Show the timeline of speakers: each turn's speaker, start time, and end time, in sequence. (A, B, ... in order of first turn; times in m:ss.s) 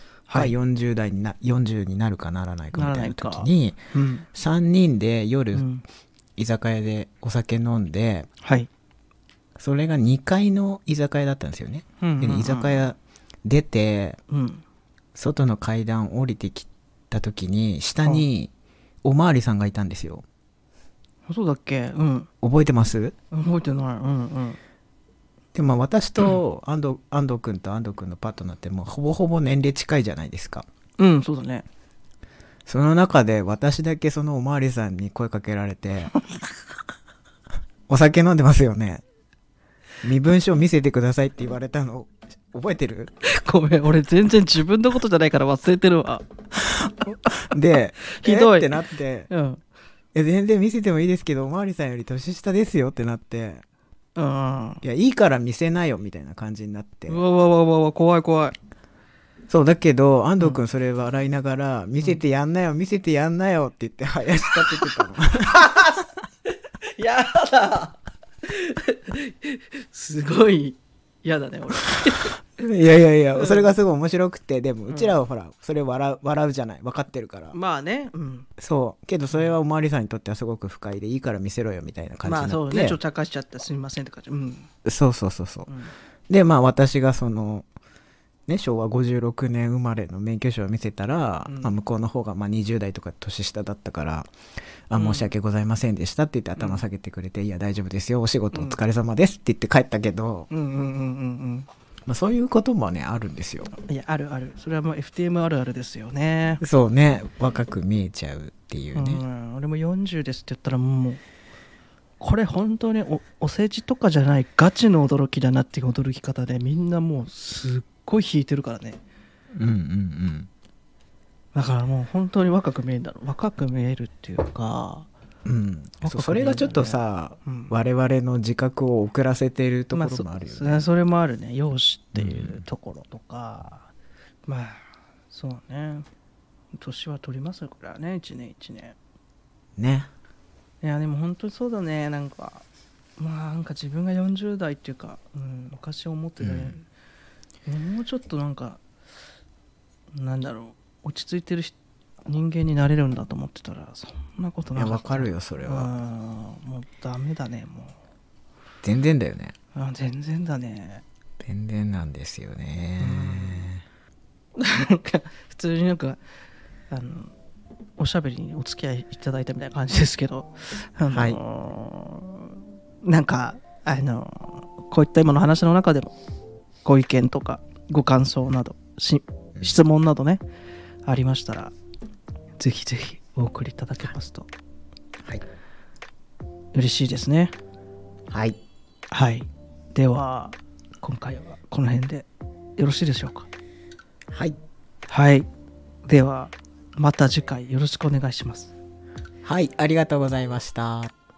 0:00.3-0:00.5 A
0:00.3-0:05.7 B
0:02.7-0:04.3 A
0:05.5-0:05.8 A
0:06.4-0:08.3 B
0:08.4-0:08.7 A
0:09.6-0:14.2 B
0:12.0-0:12.8 A
0:14.3-0:14.6 A
0:15.2-0:18.5 B
0:19.0-0:20.2 B
0:21.3-0:22.3 A
0:22.4-0:23.2 B
0:23.3-0:24.6 A
0:25.5-0:30.7 B
0:31.0-0:31.7 A
0:32.7-0:36.1 B
0:37.9-0:39.0 B
0:40.0-0:43.1 B
0:43.2-0:46.2 A
0:46.7-0:49.3 B
0:48.1-0:49.6 A
0:50.1-0:53.6 B
0:54.2-0:54.8 A
0:54.8-0:57.2 B
0:57.1-0:58.6 A
0:59.5-1:05.6 B
1:04.8-1:06.0 A
1:06.9-1:12.4 A
1:12.6-1:17.6 B
1:13.4-1:13.7 A
1:14.9-1:15.2 A
1:17.5-1:18.5 A
1:18.6-1:23.0 B
1:19.3-1:19.6 A
1:22.2-1:24.7 A
1:24.8-1:25.7 B
1:25.7-1:25.9 A
1:26.3-1:27.7 B
1:28.5-1:34.3 B
1:31.5-1:31.8 A
1:34.9-1:40.5 B
1:34.9-1:35.3 A
1:36.6-1:36.8 A
1:38.5-1:38.8 A
1:40.5-1:41.7 A
1:42.1-1:43.7 B
1:43.7-1:46.6 A
1:46.6-1:49.2 B
1:48.9-1:51.2 A
1:52.2-1:59.0 A
1:59.5-2:00.5 B
2:01.6-2:05.1 A
2:05.4-2:10.9 B
2:06.0-2:07.7 A
2:09.9-2:13.9 A
2:12.2-2:12.6 B
2:14.5-2:16.1 A
2:16.8-2:19.0 A
2:19.8-2:20.1 B
2:20.8-2:22.6 A
2:23.2-2:26.9 A
2:26.4-2:26.8 B
2:27.7-2:28.8 A
2:30.1-2:38.0 A
2:34.8-2:35.9 B
2:38.8-2:39.6 B
2:39.8-2:41.0 A
2:41.4-2:43.8 B
2:43.0-2:43.7 A
2:44.6-2:46.2 A
2:46.9-2:47.3 A
2:48.0-2:56.2 A
2:51.1-2:51.4 B
2:56.8-3:00.4 A
3:01.1-3:01.7 A
3:02.6-3:04.5 A
3:06.7-3:07.5 A
3:08.3-3:08.6 B
3:09.1-3:13.5 A
3:14.3-3:14.6 B
3:15.1-3:15.5 A
3:16.0-3:18.7 A
3:19.4-3:21.1 B